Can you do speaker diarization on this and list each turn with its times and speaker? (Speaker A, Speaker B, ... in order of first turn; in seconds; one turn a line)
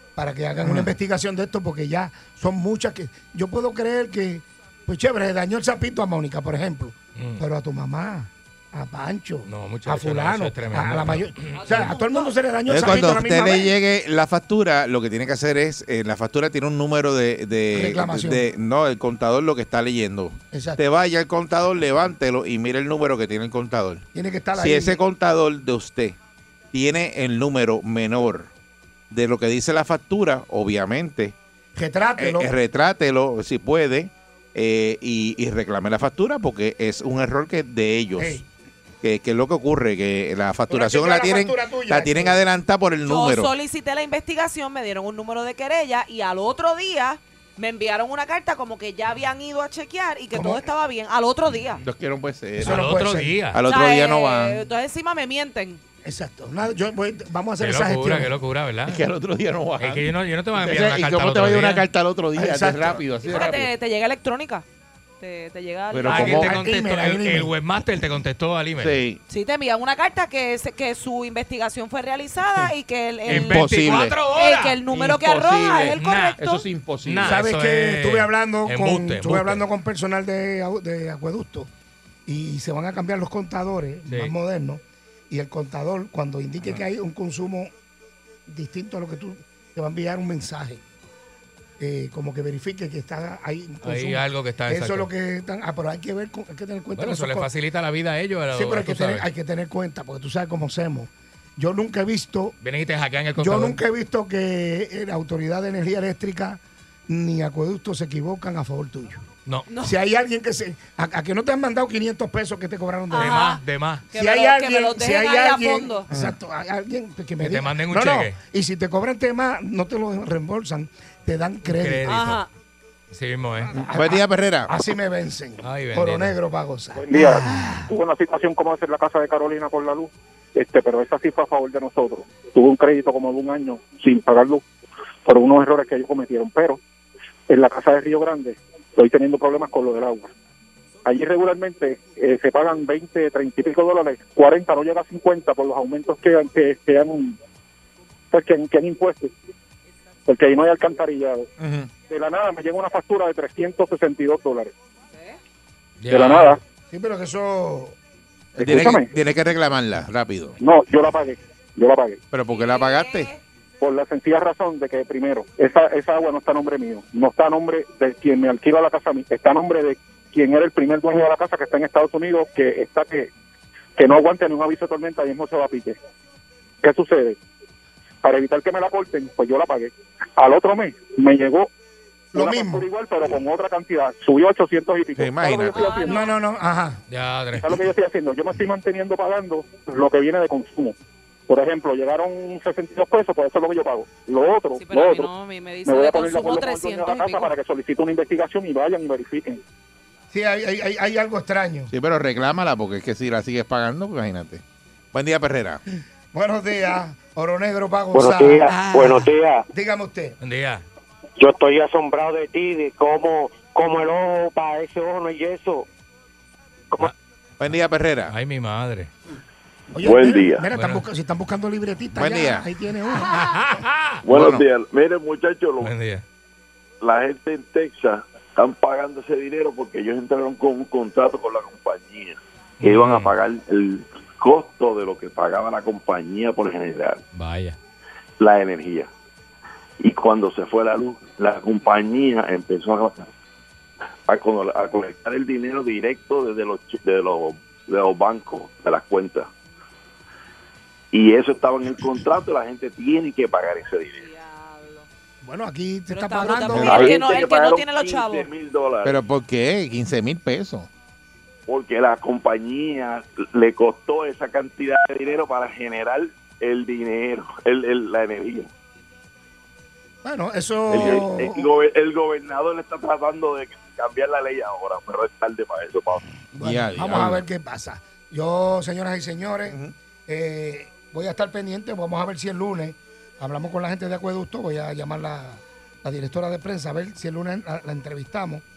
Speaker A: 0.1-13.7
Speaker B: 7.2-7.4
Speaker B: 9.4-11.9
Speaker C: 11.5-12.3
Speaker D: 12.7-26.2
Speaker A: 17.7-18.5
Speaker A: 20.5-20.8
Speaker A: 24.1-25.0
Speaker D: 26.7-28.5
Speaker D: 29.1-31.4
Speaker A: 31.7-32.5
Speaker D: 32.2-38.4
Speaker A: 38.2-38.4
Speaker D: 39.0-43.5
Speaker A: 40.7-42.4
Speaker C: 43.0-51.8
Speaker D: 51.8-52.8
Speaker A: 52.6-53.4
Speaker B: 52.6-53.6
Speaker D: 53.5-54.6
Speaker C: 53.7-55.8
Speaker A: 56.0-58.3
Speaker B: 57.6-59.0
Speaker D: 58.9-63.7
Speaker B: 59.8-61.9
Speaker A: 62.3-63.0
Speaker C: 63.2-64.6
Speaker C: 65.2-66.5
Speaker D: 65.9-66.5
Speaker B: 66.1-69.0
Speaker A: 66.5-67.5
Speaker D: 68.8-69.2
Speaker C: 69.3-73.7
Speaker B: 73.2-74.8
Speaker D: 73.3-74.2
Speaker C: 74.3-76.6
Speaker D: 74.8-77.4
Speaker B: 75.9-79.6
Speaker A: 77.2-81.7
Speaker A: 82.2-87.7
Speaker B: 84.1-84.3
Speaker A: 88.5-90.8
Speaker A: 91.8-97.5
Speaker B: 93.8-95.1
Speaker B: 97.0-99.2
Speaker A: 98.5-102.5
Speaker B: 102.6-103.8
Speaker A: 103.4-109.2
Speaker C: 109.7-110.0
Speaker A: 109.8-113.5
Speaker C: 113.1-116.0
Speaker B: 113.1-114.1
Speaker A: 114.1-122.1
Speaker B: 117.4-118.3
Speaker B: 121.6-122.4
Speaker C: 122.0-122.5
Speaker B: 123.1-123.8
Speaker A: 123.7-127.8
Speaker D: 123.8-124.7
Speaker B: 125.6-126.4
Speaker E: 127.0-134.6
Speaker E: 135.2-136.8
Speaker E: 137.5-140.3
Speaker E: 141.0-147.3
Speaker E: 148.3-149.3
Speaker E: 150.2-151.5
Speaker D: 151.6-151.9
Speaker E: 152.1-154.7
Speaker C: 155.1-155.4
Speaker B: 156.0-156.6
Speaker E: 156.1-156.6
Speaker A: 156.9-157.9
Speaker E: 158.6-159.1
Speaker D: 158.6-160.6
Speaker E: 160.6-162.2
Speaker D: 162.3-163.3
Speaker C: 162.5-163.4
Speaker E: 163.8-173.3
Speaker E: 174.0-176.0
Speaker E: 176.8-177.4
Speaker E: 178.2-181.7
Speaker A: 182.3-182.8
Speaker E: 182.3-186.2
Speaker D: 185.2-186.0
Speaker C: 185.7-186.3
Speaker A: 186.1-187.0
Speaker B: 187.1-187.8
Speaker E: 187.5-190.9
Speaker E: 191.5-195.3
Speaker C: 194.7-197.5
Speaker E: 195.8-199.6
Speaker A: 200.3-201.9
Speaker D: 201.9-204.6
Speaker D: 205.1-205.8
Speaker A: 206.3-208.7
Speaker F: 208.1-209.7
Speaker B: 208.7-209.1
Speaker A: 209.7-210.4
Speaker B: 210.4-210.8
Speaker F: 211.4-215.8
Speaker D: 217.6-218.3
Speaker B: 218.3-219.1
Speaker A: 219.9-223.5
Speaker G: 220.0-220.7
Speaker B: 220.7-221.0
Speaker D: 222.1-222.6
Speaker B: 223.3-224.2
Speaker D: 224.2-224.6
Speaker G: 224.2-225.9
Speaker B: 225.8-226.2
Speaker G: 227.0-237.2
Speaker B: 232.8-233.3
Speaker B: 237.3-237.8
Speaker G: 238.4-239.1
Speaker G: 240.0-243.3
Speaker G: 244.3-249.5
Speaker G: 251.1-254.3
Speaker C: 254.1-255.1
Speaker A: 255.4-257.3
Speaker C: 256.1-258.5
Speaker D: 256.7-257.2
Speaker G: 256.8-259.2
Speaker D: 259.0-260.9
Speaker G: 261.7-268.7
Speaker A: 270.2-271.7
Speaker G: 270.9-276.2
Speaker A: 276.5-288.6
Speaker D: 276.6-277.4